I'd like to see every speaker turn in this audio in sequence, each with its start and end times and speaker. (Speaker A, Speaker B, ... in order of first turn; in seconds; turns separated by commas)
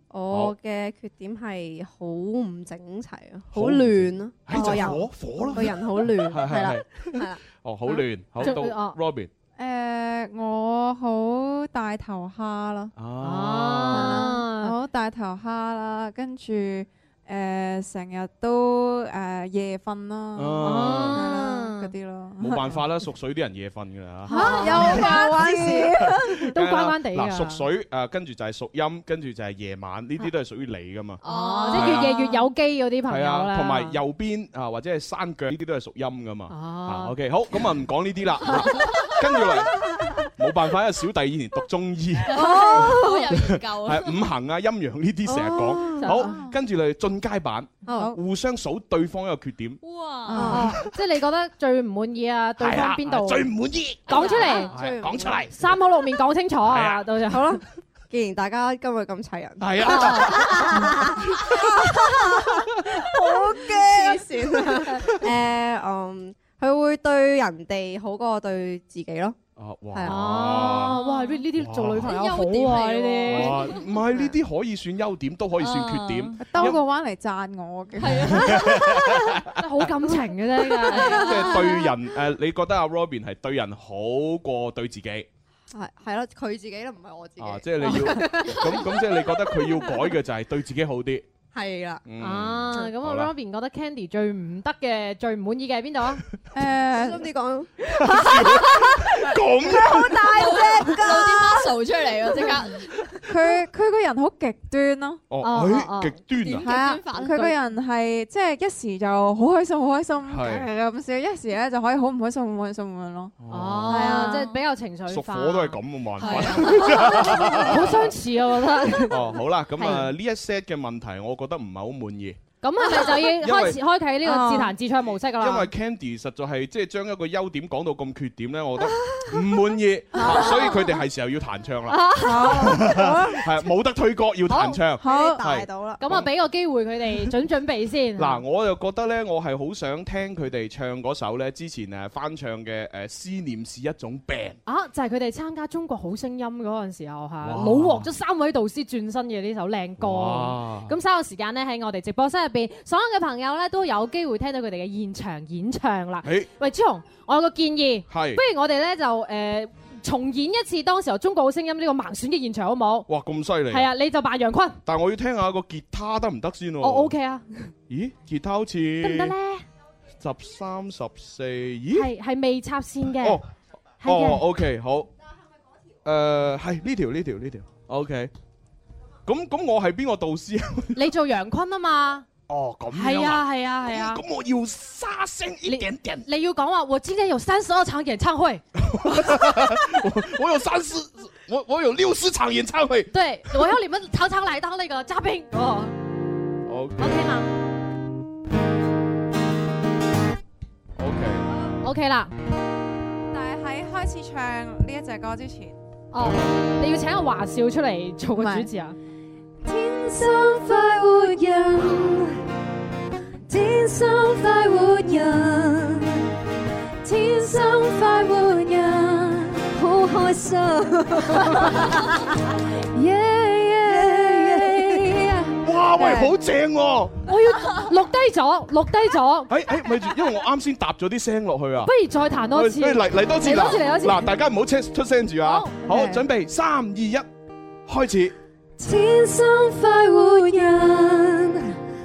Speaker A: 0.1-7.4, Speaker B: 0.3-0.6, Speaker B: 3.5-9.3, Speaker C: 8.4-9.0, Speaker D: 9.6-12.9, Speaker B: 13.0-14.3, Speaker C: 13.2-14.8, Speaker D: 13.9-22.7, Speaker B: 20.4-21.3, Speaker C: 20.6-21.9, Speaker B: 22.4-25.2, Speaker C: 24.3-25.4, Speaker A: 24.3-26.4, Speaker D: 24.4-26.0, Speaker B: 25.9-31.2, Speaker C: 26.4-27.6, Speaker E: 31.2-32.1, Speaker C: 31.2-34.0, Speaker B: 31.7-32.2, Speaker B: 33.1-39.9, Speaker C: 36.5-37.1, Speaker B: 40.4-42.8, Speaker E: 42.3-44.2, Speaker A: 42.3-43.3, Speaker B: 43.3-49.8, Speaker A: 45.2-46.3, Speaker C: 46.0-46.4, Speaker D: 46.2-46.6, Speaker A: 47.9-48.1, Speaker D: 47.9-48.2, Speaker E: 49.8-50.6, Speaker D: 50.3-50.7, Speaker A: 50.3-50.8, Speaker C: 50.4-53.5, Speaker B: 50.5-50.9, Speaker B: 52.6-55.6, Speaker C: 54.1-54.7, Speaker A: 54.1-55.5, Speaker C: 55.5-57.6, Speaker B: 56.6-57.1, Speaker A: 57.3-69.4, Speaker B: 59.6-65.2, Speaker B: 69.6-71.0, Speaker C: 70.1-73.6, Speaker E: 70.9-71.3, Speaker B: 71.5-72.5, Speaker E: 72.0-73.8, Speaker B: 73.3-76.8, Speaker A: 74.0-74.4, Speaker E: 75.6-76.7, Speaker D: 76.4-78.6, Speaker E: 78.0-78.7, Speaker B: 78.1-79.5, Speaker C: 79.6-81.3, Speaker B: 81.0-85.3, Speaker E: 81.1-81.5, Speaker A: 81.4-81.8, Speaker A: 85.7-90.0, Speaker B: 87.4-91.2, Speaker A: 91.5-92.0, Speaker B: 92.1-93.3, Speaker C: 92.2-96.2, Speaker D: 96.5-97.3, Speaker A: 96.8-101.7, Speaker B: 97.9-100.6, Speaker E: 100.2-102.9, Speaker D: 103.3-105.2, Speaker B: 105.3-106.7, Speaker C: 105.4-106.6, Speaker E: 106.5-107.6, Speaker D: 106.6-113.3, Speaker B: 110.3-110.7, Speaker B: 113.4-114.3, Speaker C: 113.5-119.2, Speaker D: 113.9-114.5, Speaker B: 115.1-118.1, Speaker E: 116.2-117.1, Speaker B: 119.1-122.4, Speaker C: 119.8-120.1, Speaker C: 122.6-125.7, Speaker B: 123.3-123.8, Speaker A: 124.3-124.6, Speaker B: 125.4-136.3, Speaker C: 130.2-130.8, Speaker C: 131.9-132.6, Speaker D: 132.2-133.1, Speaker A: 132.9-133.4, Speaker C: 134.5-134.8, Speaker A: 135.0-136.0, Speaker D: 135.0-135.4, Speaker C: 136.0-138.4, Speaker B: 138.2-144.6, Speaker C: 144.7-163.1, Speaker B: 147.4-148.1, Speaker B: 150.0-150.9, Speaker B: 156.2-156.5, Speaker B: 158.1-158.4, Speaker B: 163.1-163.9, Speaker C: 163.7-164.8, Speaker B: 164.9-167.1, Speaker C: 166.8-167.7, Speaker B: 167.9-169.3, Speaker C: 169.0-169.7, Speaker B: 170.2-172.1, Speaker C: 171.9-173.4, Speaker C: 174.0-174.4, Speaker B: 174.0-175.1, Speaker B: 176.1-178.3, Speaker B: 179.3-181.0, Speaker C: 180.9-182.3, Speaker B: 182.5-186.2, Speaker C: 182.9-184.2, Speaker C: 185.7-188.6, Speaker B: 188.8-193.8, Speaker C: 193.1-195.9, Speaker B: 196.7-197.4, Speaker C: 197.0-197.5, Speaker B: 201.0-201.5, Speaker C: 201.8-202.3, Speaker D: 203.3-205.8, Speaker C: 206.1-209.0, Speaker D: 208.4-208.7, Speaker F: 209.7-212.3, Speaker F: 213.5-216.1, Speaker F: 217.0-222.0, Speaker C: 222.9-225.6, Speaker F: 224.0-224.9, Speaker B: 225.6-227.3, Speaker D: 225.9-226.3, Speaker C: 227.3-229.5, Speaker B: 229.5-231.9, Speaker C: 231.8-234.3, Speaker B: 232.5-237.3, Speaker C: 235.4-235.9, Speaker B: 237.9-238.3, Speaker F: 238.8-241.6